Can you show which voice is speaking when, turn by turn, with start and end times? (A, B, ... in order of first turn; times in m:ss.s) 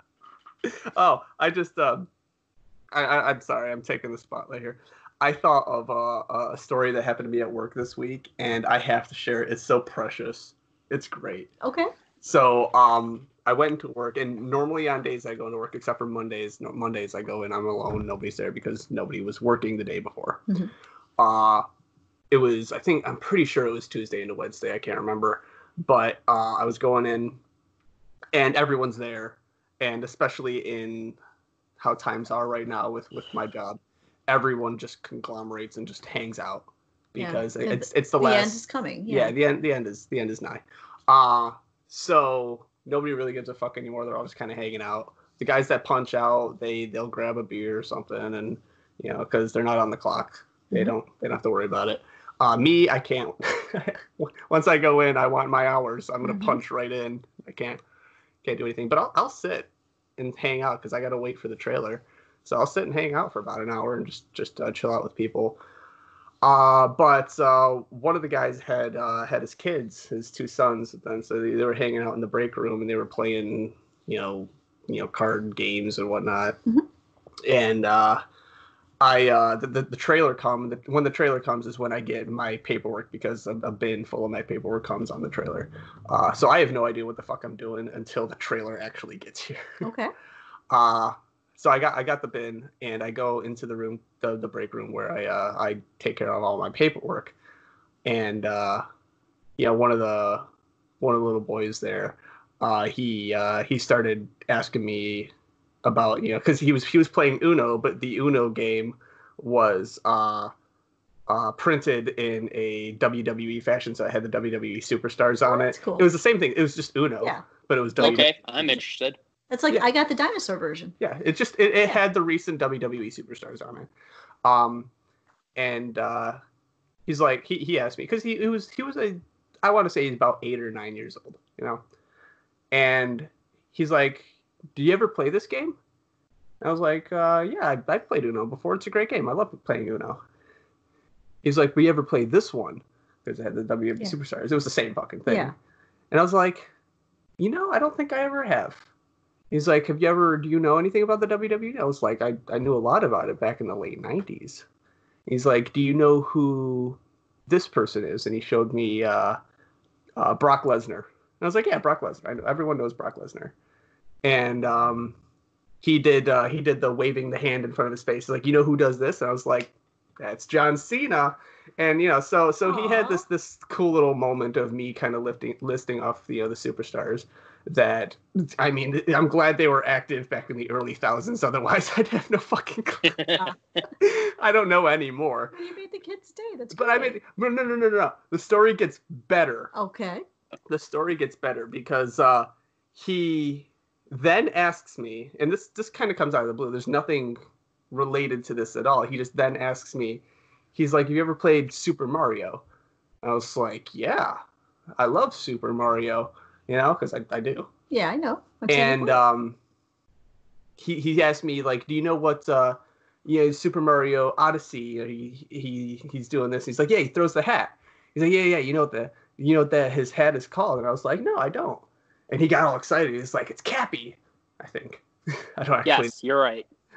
0:00.6-0:02.1 A
0:02.9-0:11.5 A
0:11.6-0:11.9 B
0:12.2-0:20.4 A
0:21.2-0:21.6 A
0:22.3-0:27.4 A
0:28.3-0:31.2 A
0:31.8-0:57.8 A
0:37.2-0:39.3 B
0:56.2-0:56.6 B
0:58.4-1:05.6 A
1:06.4-1:16.6 A
1:17.4-1:18.2 A
1:19.0-1:29.8 A
1:29.8-1:30.1 B
1:30.7-1:37.3 A
1:38.0-1:38.8 A
1:39.6-1:40.4 A
1:41.0-1:45.3 A
1:45.8-1:50.5 A
1:51.3-1:58.7 A
1:55.4-1:56.1 B
1:58.0-1:59.2 C
1:59.5-2:00.9 B
2:01.0-2:03.9 A
2:04.4-2:04.9 A
2:05.6-2:06.4 A
2:07.0-2:11.8 A
2:12.7-2:15.8 A
2:16.6-2:20.2 A
2:21.4-2:25.5 A
2:25.3-2:25.5 B
2:26.1-2:26.7 A
2:27.4-2:28.9 A
2:29.5-2:34.6 A
2:35.3-2:39.4 A
2:40.2-2:43.5 A
2:44.2-2:45.2 A
2:45.8-3:05.5 A
2:52.6-2:53.2 B
3:03.1-3:03.4 C
3:05.5-3:07.2 B
3:06.7-3:09.7 A
3:09.7-3:10.2 B
3:10.7-3:17.4 A
3:17.9-3:20.2 A
3:20.7-3:22.6 A
3:23.2-3:24.4 A
3:25.0-3:27.7 A
3:27.9-3:29.2 B
3:28.7-3:29.6 A
3:30.8-3:46.1 A
3:45.8-3:46.7 C